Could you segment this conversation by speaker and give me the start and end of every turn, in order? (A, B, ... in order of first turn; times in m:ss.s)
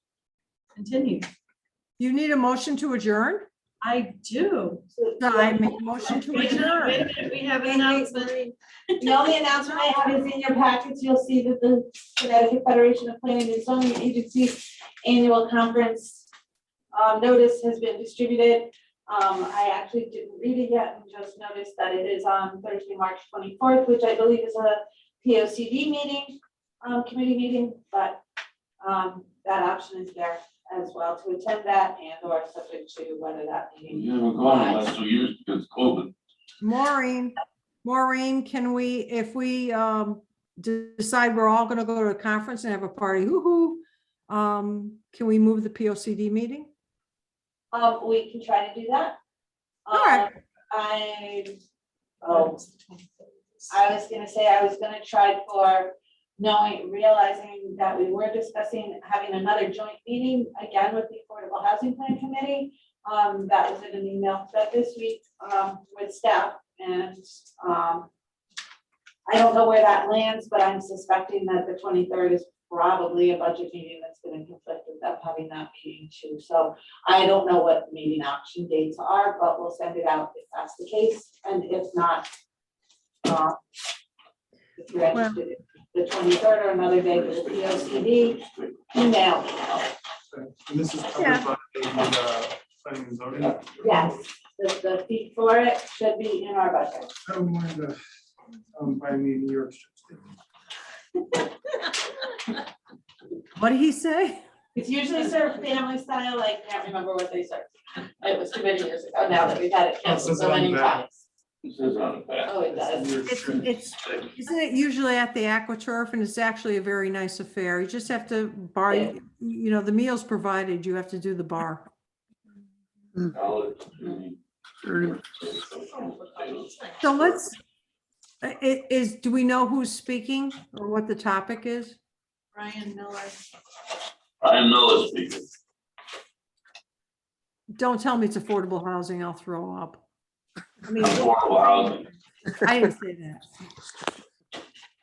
0:00.7-0:01.3 A
0:02.0-0:03.5 B
0:03.8-0:04.8 A
0:04.9-0:06.7 C
0:05.2-0:07.0 B
0:06.0-0:10.1 A
0:07.7-0:08.3 C
0:09.0-0:16.3 C
0:16.9-0:28.2 C
0:28.8-0:35.0 C
0:33.9-0:36.1 D
0:36.6-0:46.7 B
0:47.7-0:49.2 C
0:49.8-0:51.5 C
0:49.9-0:50.3 B
0:52.2-0:52.6 C
0:52.3-0:53.1 A
0:53.7-1:08.1 C
1:09.2-1:22.3 C
1:23.2-1:23.6 C
1:24.8-1:28.4 C
1:25.1-1:25.4 B
1:27.0-1:28.8 D
1:28.9-1:29.8 C
1:30.3-1:33.6 E
1:31.2-1:31.4 B
1:33.4-1:33.9 D
1:33.8-1:37.1 C
1:37.2-1:38.0 E
1:38.7-1:40.3 E
1:43.6-1:44.4 B
1:44.7-1:51.2 C
1:50.0-1:51.0 E
1:51.6-1:52.6 D
1:52.4-1:53.2 C
1:52.7-1:53.7 E
1:53.2-2:01.9 B
1:58.9-1:59.2 C
2:03.3-2:07.4 D
2:05.9-2:07.0 A
2:07.0-2:07.6 B
2:08.4-2:12.0 B
2:12.5-2:13.4 A
2:14.4-2:15.5 D
2:17.8-2:20.0 B
2:20.8-2:22.0 B
2:21.0-2:22.1 D
2:22.6-2:23.5 B